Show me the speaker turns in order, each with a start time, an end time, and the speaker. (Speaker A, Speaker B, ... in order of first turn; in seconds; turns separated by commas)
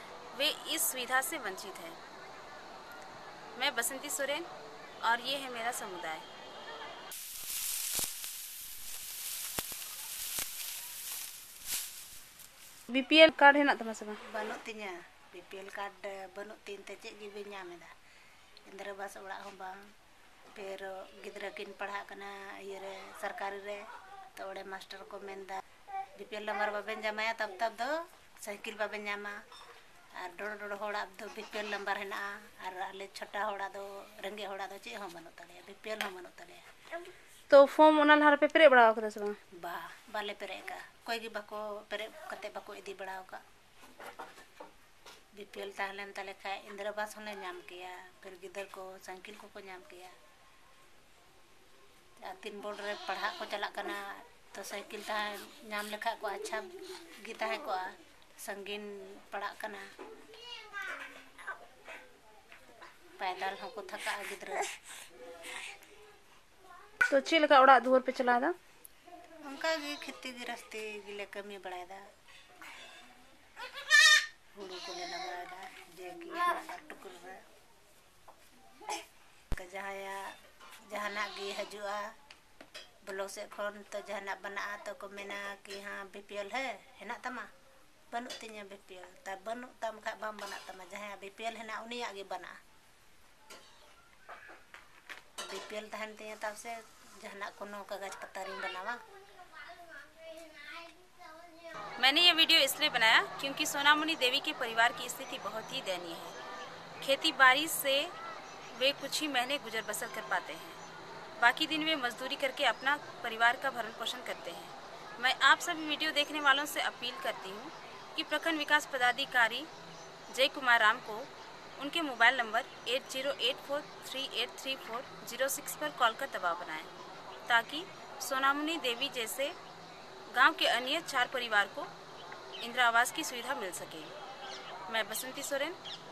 Speaker A: 0.3-2.0, Speaker A: 3.5-4.5, Speaker A: 5.0-6.2, Speaker B: 12.9-14.2, Speaker C: 14.2-17.9, Speaker C: 18.7-19.8, Speaker C: 20.5-23.8, Speaker C: 24.4-25.6, Speaker C: 26.2-29.4, Speaker C: 30.2-36.6, Speaker B: 37.5-39.4, Speaker C: 39.5-43.4, Speaker C: 45.3-50.1, Speaker C: 52.2-57.9, Speaker C: 58.4-59.9, Speaker C: 63.2-64.8, Speaker B: 67.1-68.5, Speaker C: 69.4-72.1, Speaker C: 74.5-77.4, Speaker C: 79.5-80.3, Speaker C: 80.9-82.0, Speaker C: 83.1-87.5, Speaker C: 88.1-92.6, Speaker C: 95.4-99.0, Speaker A: 102.0-106.3, Speaker A: 107.0-108.1, Speaker A: 108.7-110.8, Speaker A: 111.4-119.7, Speaker A: 120.3-126.9, Speaker A: 127.5-129.6, Speaker A: 130.3-131.9, Speaker A: 132.6-134.1, Speaker A: 134.9-135.8